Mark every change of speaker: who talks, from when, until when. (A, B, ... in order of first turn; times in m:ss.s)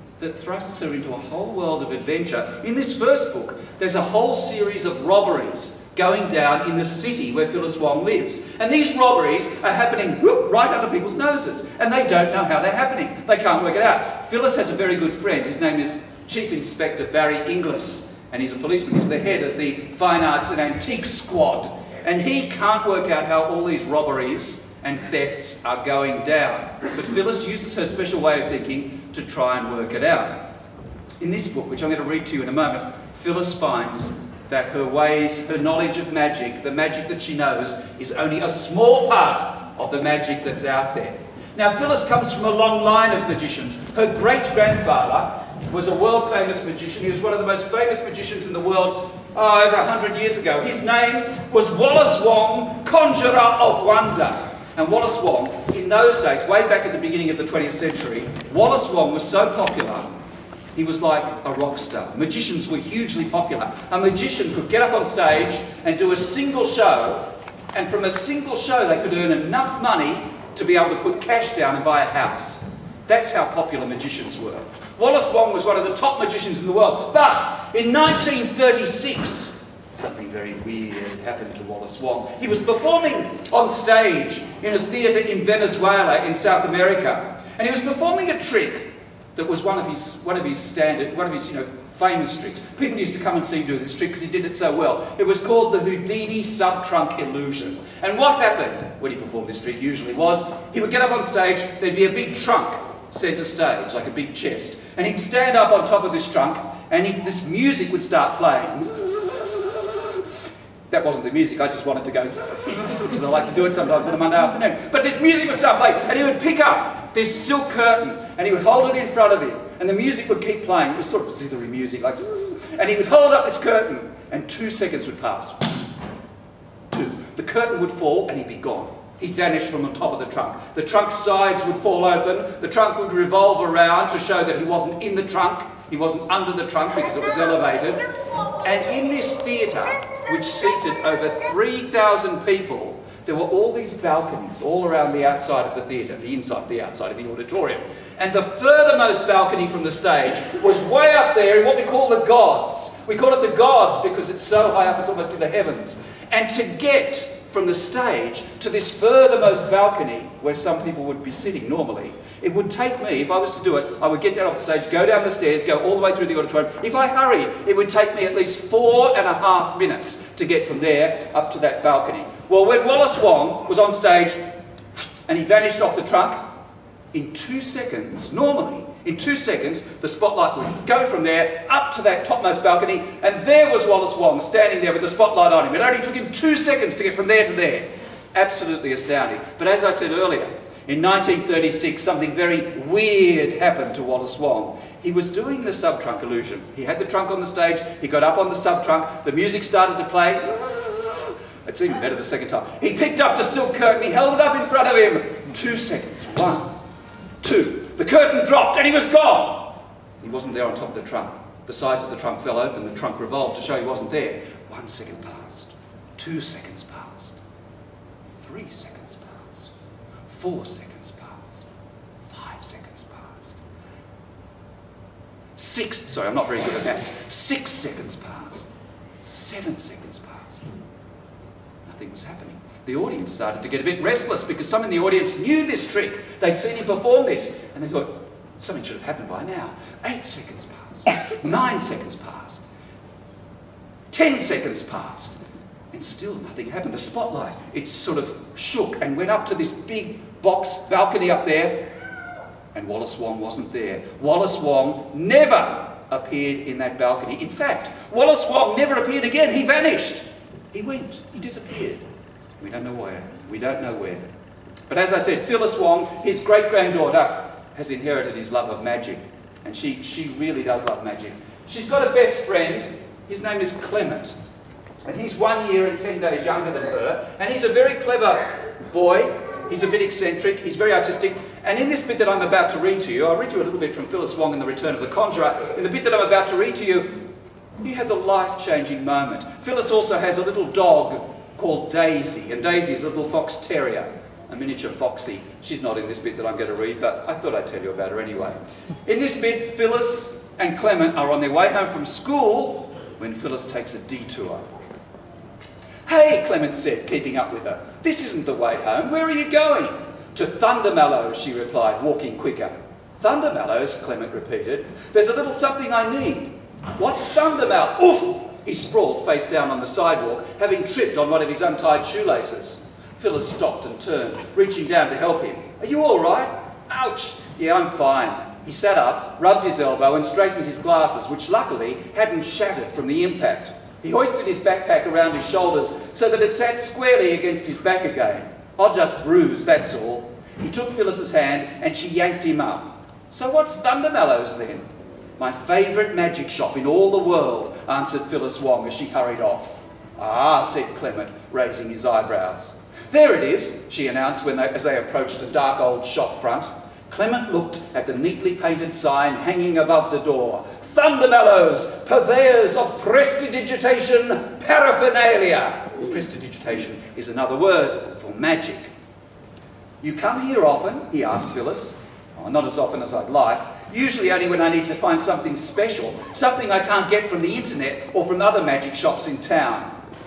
0:00.2-0:30.4 A
0:31.2-1:00.1 A
1:00.7-1:50.2 A
1:50.9-2:05.7 A
2:06.9-2:54.4 A
2:55.2-2:56.5 A
2:57.1-3:26.7 A
3:27.4-3:37.4 A
3:38.4-3:39.7 A
3:40.2-3:41.5 A
3:42.3-3:43.6 A
3:45.6-3:48.7 A
3:49.2-3:50.7 A
3:51.8-4:02.6 A
4:04.1-4:05.4 A
4:05.9-4:11.8 A
4:12.7-4:22.0 A
4:22.6-4:24.2 A
4:24.9-4:34.3 A
4:35.0-4:47.2 A
4:47.8-5:04.7 A
5:06.0-5:44.9 A
5:45.4-6:08.9 A
6:10.0-6:19.9 A